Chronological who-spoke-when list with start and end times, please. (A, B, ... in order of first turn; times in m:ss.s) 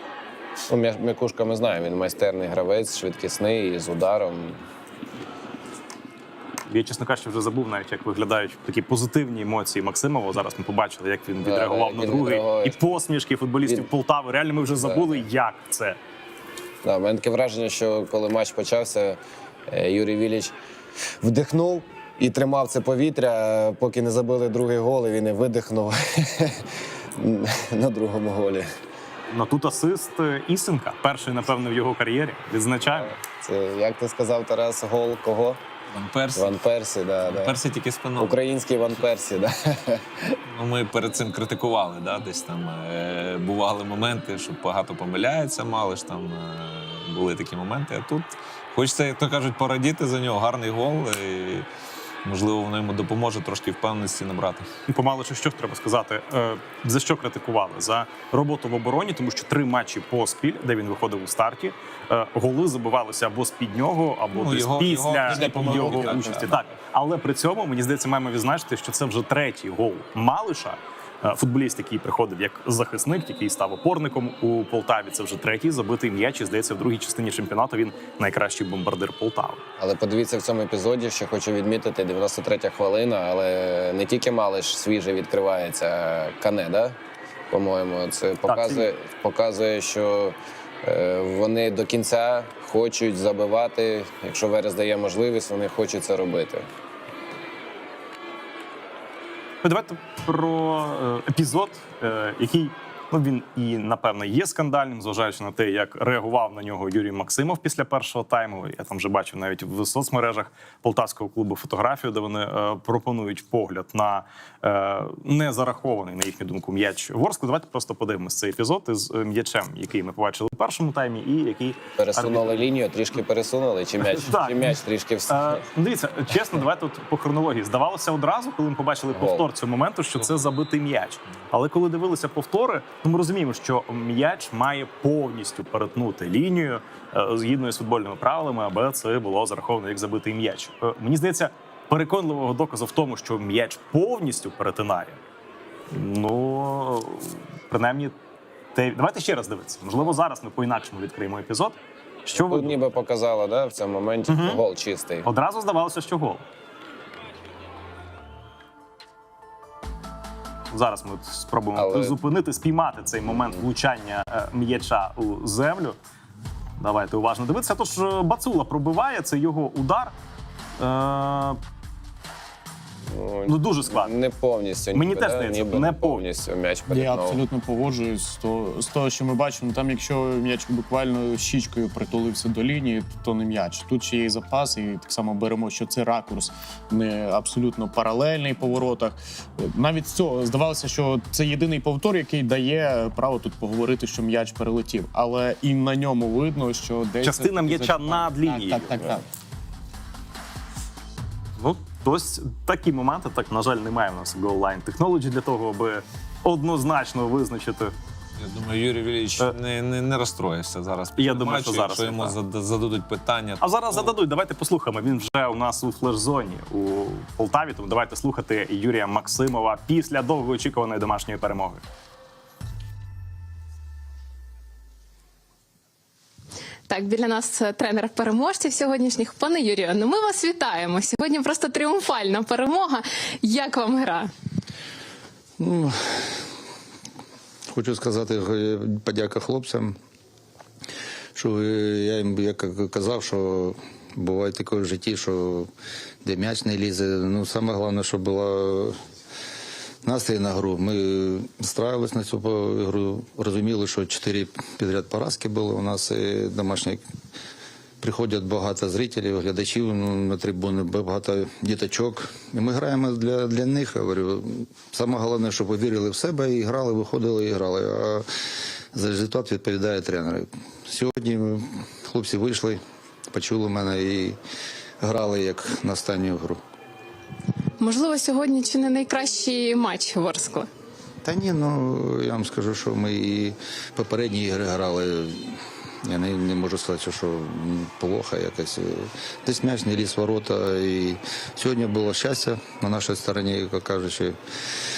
0:00.7-0:04.6 A
0:06.7-0:16.0 B
0:11.4-0:12.8 A
0:14.7-0:15.2 A
0:16.8-0:20.5 A
0:21.2-0:26.6 A
0:27.2-0:28.7 A
0:29.3-0:33.1 B
0:32.8-0:35.6 A
0:35.9-0:36.6 C
0:36.3-0:37.6 A
0:37.2-0:38.4 C
0:38.2-0:40.4 A
0:40.5-0:51.7 C
0:52.2-0:54.7 C
0:54.9-1:19.6 B
1:04.3-1:06.7 C
1:05.3-1:06.5 D
1:19.8-1:27.0 A
1:27.5-1:36.7 A
1:28.5-1:28.8 B
1:39.6-2:02.7 B
2:02.0-2:05.6 A
2:04.0-2:25.2 B
2:09.1-2:09.4 A
2:25.9-2:28.2 B
2:28.8-2:32.8 B
2:32.4-2:35.3 A
2:34.3-2:34.6 B
2:35.2-2:36.4 B
2:40.7-2:46.0 B
2:41.8-2:42.2 A
2:46.8-2:50.2 B
2:50.8-2:51.6 B
2:53.1-2:57.4 A
2:53.5-2:54.1 B
2:55.0-2:56.2 B
2:56.9-3:19.2 D
3:17.2-3:19.0 B
3:21.6-3:27.9 B
3:28.4-3:34.1 C
3:31.2-3:32.4 B
3:33.6-3:41.8 B
3:46.9-3:54.3 E
3:55.6-3:56.4 F
3:57.7-4:00.0 F
4:01.4-4:05.7 F
4:06.2-4:09.0 F
4:10.0-4:17.0 F
4:18.0-4:28.3 F
4:28.9-4:34.4 F
4:35.0-4:36.6 F
4:37.8-4:40.7 E
4:41.2-4:54.4 F